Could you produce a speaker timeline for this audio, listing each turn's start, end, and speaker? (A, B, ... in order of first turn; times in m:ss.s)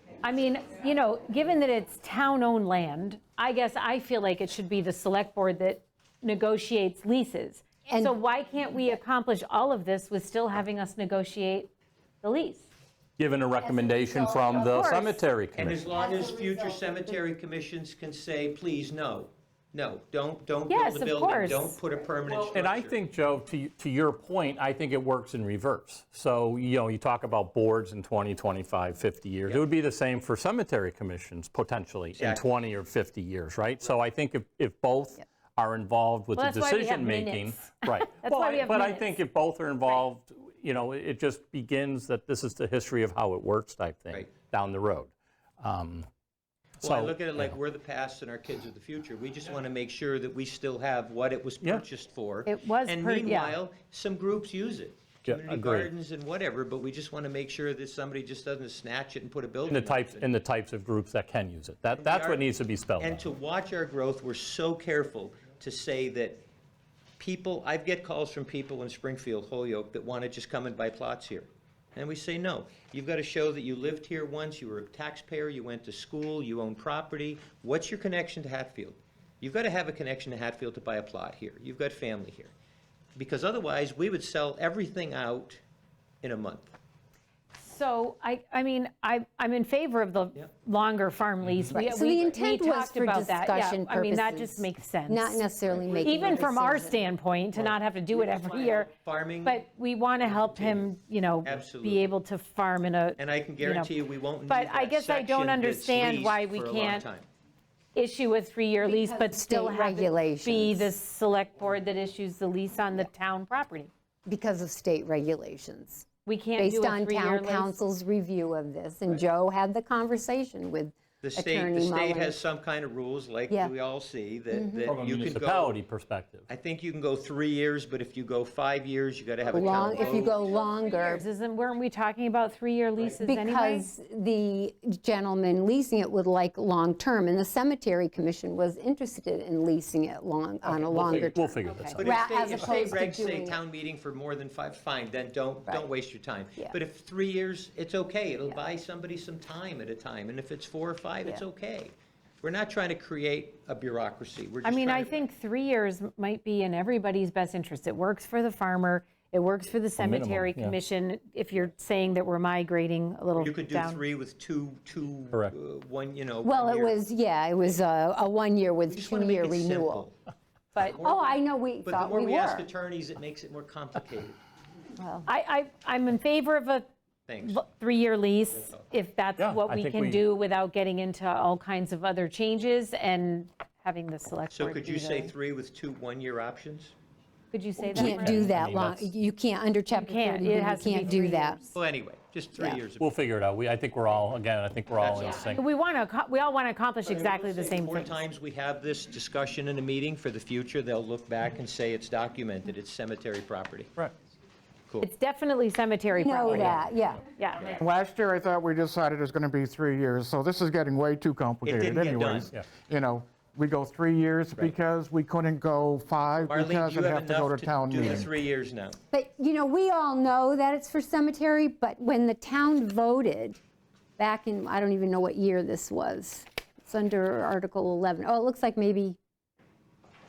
0:00.2-0:12.7 A
0:07.9-0:08.2 B
0:08.7-0:09.0 B
0:13.2-0:15.8 C
0:13.6-0:15.0 B
0:14.7-0:15.2 A
0:15.5-0:23.0 D
0:15.8-0:17.1 B
0:20.7-0:21.8 A
0:22.3-0:46.1 C
0:32.2-0:32.5 D
0:36.4-0:39.2 A
0:46.8-0:47.6 C
0:46.8-1:00.3 D
0:52.4-0:53.6 A
0:55.3-0:55.9 C
0:59.7-1:03.3 C
1:01.9-1:02.4 D
1:03.0-1:06.4 D
1:07.2-1:22.5 D
1:23.2-1:25.6 D
1:26.2-1:26.7 D
1:27.6-1:43.9 A
1:31.4-1:31.7 C
1:31.7-1:37.0 B
1:37.5-1:39.6 D
1:40.2-1:40.9 D
1:41.4-1:42.1 D
1:43.2-1:47.3 D
1:44.4-1:47.0 A
1:47.9-1:53.9 A
1:48.8-1:50.9 B
1:54.3-1:56.0 B
1:56.2-1:57.8 A
1:56.6-2:02.4 B
2:01.2-2:05.8 D
2:04.5-2:05.0 B
2:04.8-2:06.4 C
2:06.5-2:10.5 D
2:09.5-2:11.2 B
2:10.7-2:13.9 A
2:13.2-2:23.6 B
2:20.6-2:22.0 C
2:21.6-2:22.8 A
2:22.0-2:35.2 D
2:34.6-2:44.0 A
2:40.0-2:40.8 C
2:43.4-2:47.0 D
2:46.4-2:50.1 B
2:48.9-2:50.2 D
2:50.7-2:51.0 A
2:50.7-2:54.4 D
2:51.0-2:52.7 B
2:55.2-2:56.8 A
2:57.3-2:57.6 D
2:57.4-3:05.3 A
2:59.4-3:00.2 C
3:04.5-3:06.9 D
3:07.5-3:08.6 A
3:07.9-3:11.6 B
3:07.9-3:09.1 C
3:09.9-3:11.7 A
3:11.7-3:13.1 D
3:13.0-3:15.6 C
3:15.0-3:15.5 D
3:15.4-3:18.2 A
3:17.0-3:23.9 D
3:25.0-3:27.8 A
3:26.2-3:27.2 B
3:27.8-3:38.3 E
3:31.6-3:32.5 D
3:36.5-3:39.0 D
3:39.1-3:43.6 B
3:44.2-3:49.2 B